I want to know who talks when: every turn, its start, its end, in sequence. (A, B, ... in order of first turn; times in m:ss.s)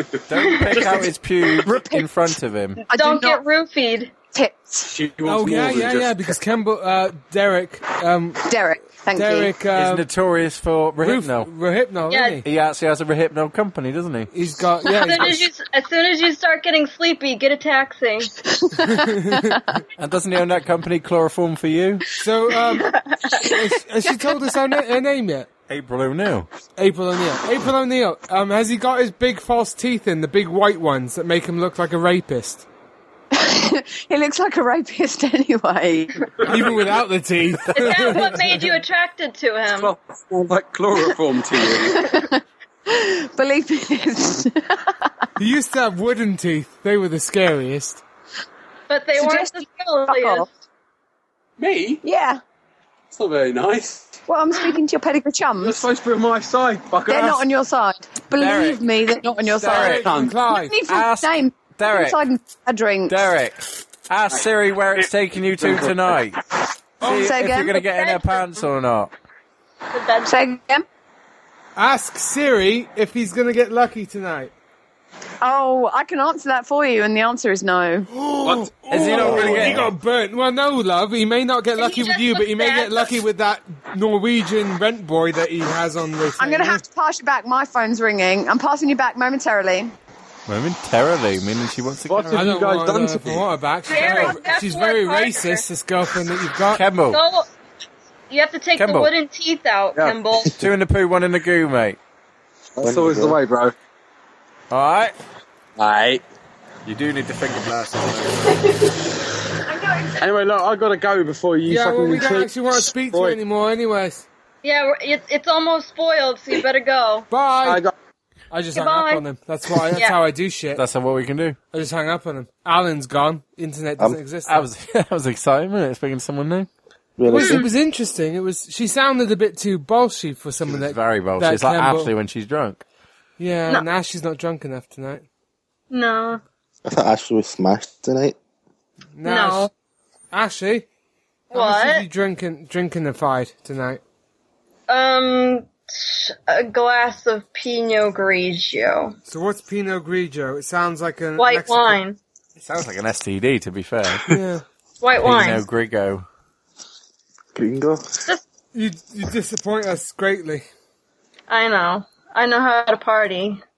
0:00.3-0:02.8 A
0:00.4-0:01.1 B
0:01.5-0:02.1 C
0:02.9-0:03.4 C
0:02.9-0:04.2 B
0:04.3-0:05.0 C
0:04.9-0:06.4 D
0:05.2-0:08.5 E
0:08.5-0:09.6 C
0:09.1-0:10.1 E
0:09.7-0:11.5 A
0:11.0-0:12.4 E
0:12.1-0:12.4 B
0:12.4-0:14.3 A
0:14.3-0:15.5 E
0:15.0-0:18.4 B
0:18.8-0:19.6 C
0:18.9-0:19.6 E
0:20.0-0:22.1 A
0:22.2-0:25.5 E
0:22.7-0:23.5 B
0:24.0-0:24.5 C
0:25.7-0:26.5 A
0:26.8-0:32.6 E
0:33.3-0:36.2 C
0:36.4-0:38.7 E
0:37.7-0:39.9 B
0:37.8-0:38.2 A
0:39.8-0:42.1 D
0:41.7-0:44.9 C
0:45.4-0:48.0 E
0:48.9-0:50.5 B
0:49.2-0:50.5 C
0:51.6-0:52.0 D
0:52.0-0:52.4 C
0:53.1-0:54.1 D
0:54.3-0:55.8 C
0:55.6-0:57.4 D
0:57.1-1:03.2 C
0:58.3-0:58.8 A
0:59.6-1:00.8 E
0:59.6-1:00.0 A
0:59.8-1:00.4 D
1:00.9-1:02.2 A
1:03.1-1:06.4 A
1:05.0-1:06.2 D
1:07.0-1:07.3 E
1:07.0-1:09.1 A
1:07.0-1:07.8 C
1:07.8-1:08.7 B
1:09.9-1:10.3 B
1:10.2-1:10.9 C
1:11.8-1:14.5 E
1:15.4-1:18.1 C
1:18.1-1:26.8 E
1:18.9-1:19.8 A
1:19.4-1:19.9 F
1:21.8-1:23.2 B
1:26.4-1:29.9 C
1:30.5-1:32.7 A
1:32.1-1:33.4 D
1:32.3-1:36.8 E
1:33.9-1:35.6 B
1:36.8-1:37.2 A
1:37.1-1:37.5 B
1:38.3-1:40.6 B
1:38.8-1:39.1 A
1:40.6-1:42.0 A
1:42.8-1:43.7 D
1:42.8-1:43.4 F
1:44.7-1:45.2 A
1:45.8-1:46.2 D
1:46.8-1:48.6 A
1:49.7-1:50.2 C
1:50.2-1:53.4 D
1:51.7-1:54.3 E
1:54.6-1:57.3 B
1:57.3-1:57.8 E
1:57.6-1:57.9 D
1:58.5-2:00.8 E
1:58.8-1:59.2 B
2:00.8-2:01.6 A
2:01.7-2:04.7 E
2:04.5-2:06.7 A
2:07.2-2:07.7 F
2:07.2-2:12.1 E
2:07.4-2:07.7 B
2:10.7-2:12.8 A
2:13.4-2:15.2 E
2:15.9-2:16.4 B
2:16.8-2:18.4 F
2:19.2-2:19.7 E
2:19.2-2:19.7 B
2:20.3-2:20.9 E
2:21.5-2:22.1 B
2:21.5-2:24.0 E
2:24.9-2:29.2 B
2:29.3-2:32.0 E
2:31.4-2:32.2 B
2:32.6-2:34.4 A
2:34.3-2:34.6 E
2:35.0-2:35.6 B
2:35.2-2:36.3 A
2:37.6-2:38.1 F
2:38.7-2:40.6 E
2:41.5-2:43.6 B